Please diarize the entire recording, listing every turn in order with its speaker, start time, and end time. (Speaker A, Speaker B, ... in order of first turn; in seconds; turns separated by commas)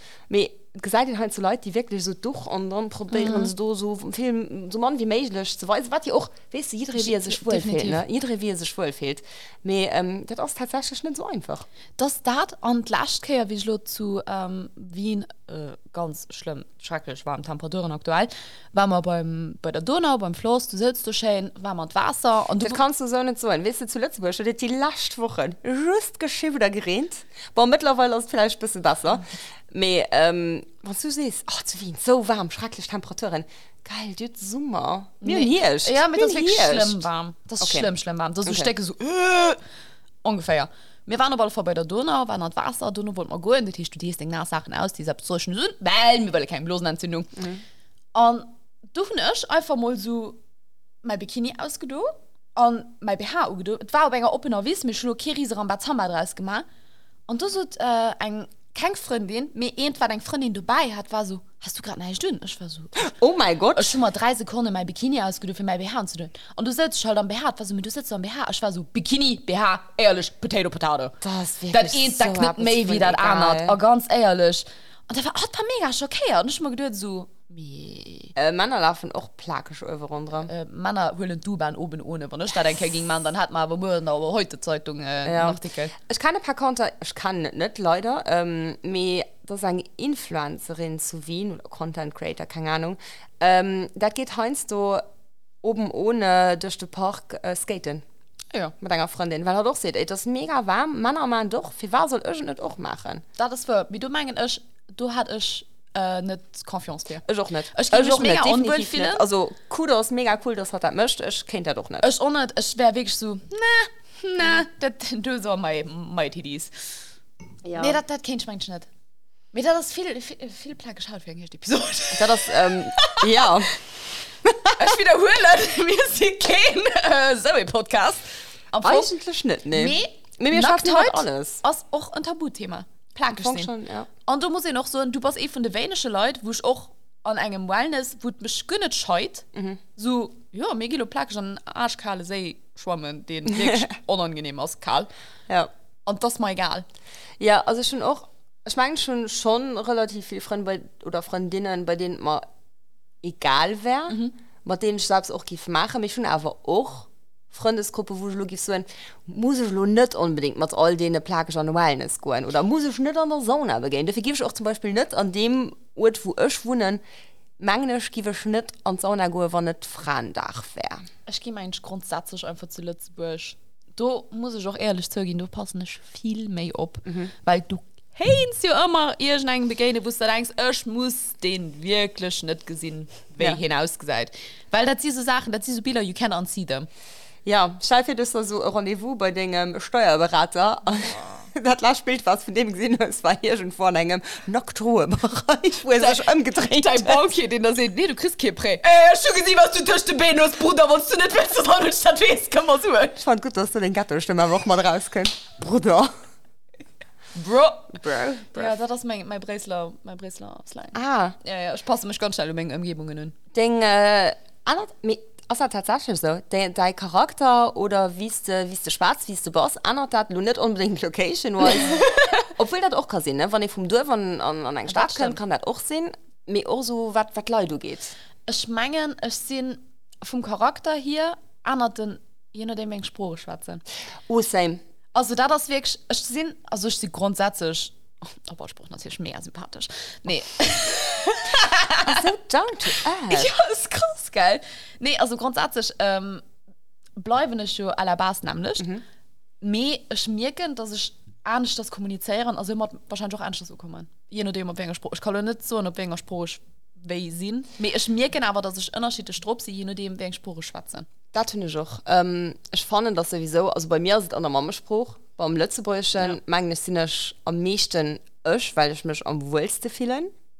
Speaker A: 0.3-11.7, Speaker B: 3.1-3.5, Speaker B: 6.9-8.0, Speaker B: 12.0-22.8, Speaker A: 22.6-37.0, Speaker B: 35.2-39.6, Speaker A: 37.6-37.9, Speaker B: 40.2-47.4, Speaker B: 48.1-50.4, Speaker B: 51.0-56.6, Speaker B: 57.3-63.1, Speaker A: 63.0-64.0, Speaker B: 63.7-71.2, Speaker A: 71.2-73.8, Speaker B: 71.7-78.3, Speaker A: 78.3-80.5, Speaker B: 80.5-85.9, Speaker A: 85.2-95.0, Speaker A: 95.6-98.0, Speaker A: 98.8-103.2, Speaker B: 103.4-109.2, Speaker A: 107.3-112.1, Speaker B: 112.0-117.0, Speaker A: 117.6-118.0, Speaker B: 117.7-118.9, Speaker B: 119.5-123.4, Speaker A: 122.1-123.8, Speaker A: 124.5-124.9, Speaker B: 124.7-129.1, Speaker A: 128.8-131.6, Speaker B: 129.7-133.7, Speaker A: 133.3-134.1, Speaker B: 134.3-145.1, Speaker A: 139.5-139.8, Speaker B: 146.1-146.9, Speaker A: 147.4-152.4, Speaker A: 153.2-167.0, Speaker A: 167.6-171.1, Speaker B: 171.3-186.9, Speaker A: 177.1-177.3, Speaker A: 187.4-197.2, Speaker B: 195.9-203.2, Speaker A: 203.2-206.1, Speaker B: 207.3-207.9, Speaker A: 207.9-208.8, Speaker B: 208.5-213.3, Speaker A: 210.9-211.3, Speaker A: 213.5-228.1, Speaker B: 221.7-222.0, Speaker B: 224.9-225.4, Speaker B: 228.5-233.8, Speaker A: 234.3-234.8, Speaker B: 235.1-242.3, Speaker A: 242.0-243.5, Speaker B: 243.3-246.4, Speaker B: 247.2-248.9, Speaker B: 249.6-261.1, Speaker A: 261.3-270.3